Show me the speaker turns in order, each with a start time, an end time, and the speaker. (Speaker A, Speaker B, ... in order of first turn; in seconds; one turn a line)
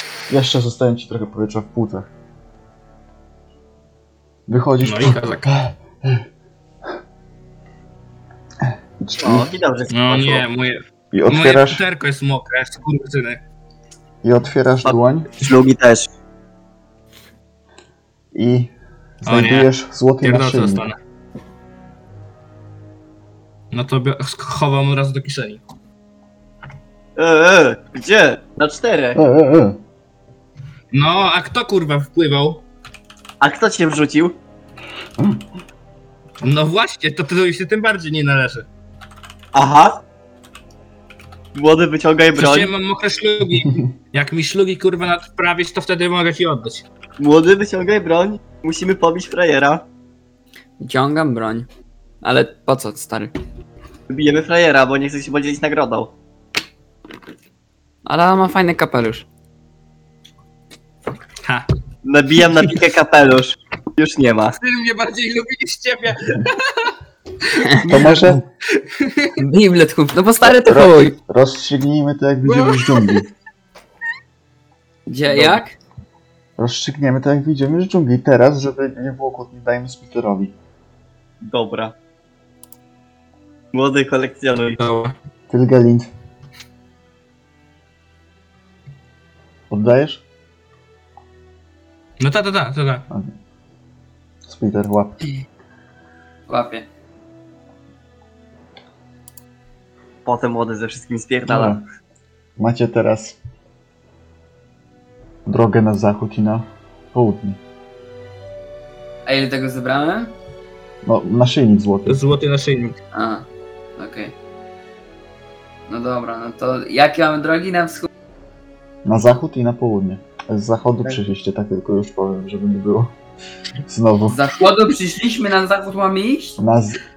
Speaker A: 0.3-2.1
Speaker A: 4.5-6.2
Speaker B: 4.8-5.5
Speaker A: 9.0-9.5
Speaker C: 9.2-10.5
Speaker B: 9.9-13.4
Speaker A: 11.1-11.8
Speaker A: 14.2-15.3
Speaker C: 14.8-16.1
Speaker A: 18.3-20.9
Speaker B: 19.3-19.7
Speaker B: 20.2-21.0
Speaker B: 23.7-25.6
Speaker C: 27.2-29.2
Speaker A: 29.1-29.8
Speaker B: 30.9-32.6
Speaker C: 33.4-34.4
Speaker B: 36.4-38.7
Speaker C: 39.5-40.0
Speaker C: 41.5-42.7
Speaker B: 42.4-46.9
Speaker C: 47.2-49.9
Speaker D: 50.8-51.7
Speaker D: 52.2-53.3
Speaker C: 54.1-56.1
Speaker D: 58.0-59.2
Speaker C: 62.0-64.6
Speaker B: 64.6-67.0
Speaker D: 67.6-68.0
Speaker A: 67.8-68.5
Speaker B: 68.7-69.4
Speaker D: 69.4-71.2
Speaker A: 70.4-73.3
Speaker B: 72.4-73.2
Speaker D: 75.1-75.8
Speaker A: 75.3-75.6
Speaker A: 76.6-80.5
Speaker C: 81.4-82.0
Speaker C: 83.7-84.8
Speaker B: 84.8-85.2
Speaker A: 85.5-86.1
Speaker A: 89.7-90.2
Speaker B: 92.2-93.1
Speaker A: 94.5-95.2
Speaker D: 96.5-96.9
Speaker C: 100.3-101.8
Speaker A: 101.5-101.8
Speaker A: 102.6-103.4
Speaker A: 105.5-107.6
Speaker D: 109.3-110.3
Speaker A: 111.0-112.3
Speaker B: 112.1-113.0
Speaker D: 113.1-113.5
Speaker D: 114.0-114.3
Speaker D: 115.9-118.1
Speaker A: 119.0-123.1
Speaker A: 123.9-124.4
Speaker D: 124.3-126.6
Speaker A: 126.6-127.0